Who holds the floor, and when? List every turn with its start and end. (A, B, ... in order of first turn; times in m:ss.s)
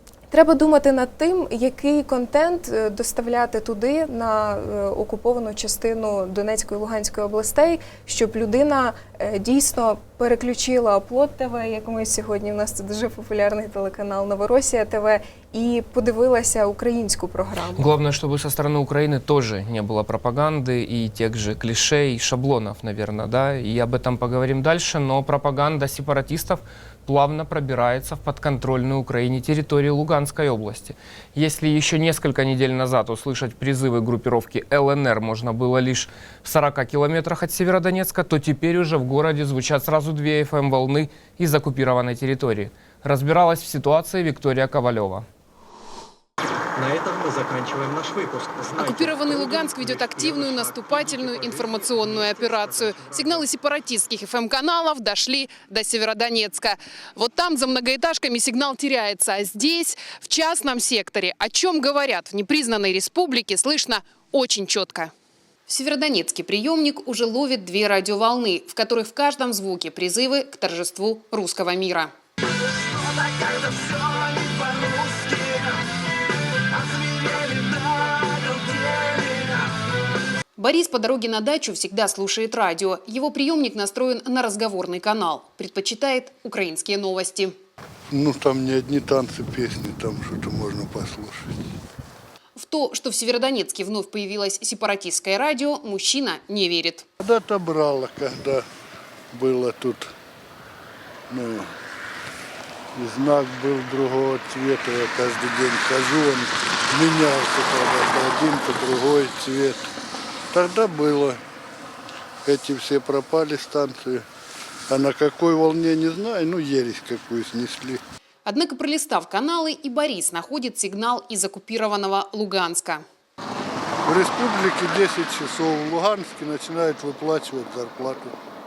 0:00.3-0:17.9 A
0:17.8-0:45.2 B
0:46.8-0:53.4 C
0:48.8-1:05.1 D
1:05.7-1:12.1 D
1:20.6-1:27.6 D
1:28.1-1:31.5 E
1:32.6-1:37.0 D
1:37.2-1:38.6 E
1:39.3-1:40.1 E
1:41.3-1:41.7 E
1:42.9-1:49.9 E
1:50.5-1:51.4 E
1:52.4-1:54.2 E
1:54.9-1:58.0 E
1:58.4-2:03.0 D
2:04.0-2:08.3 E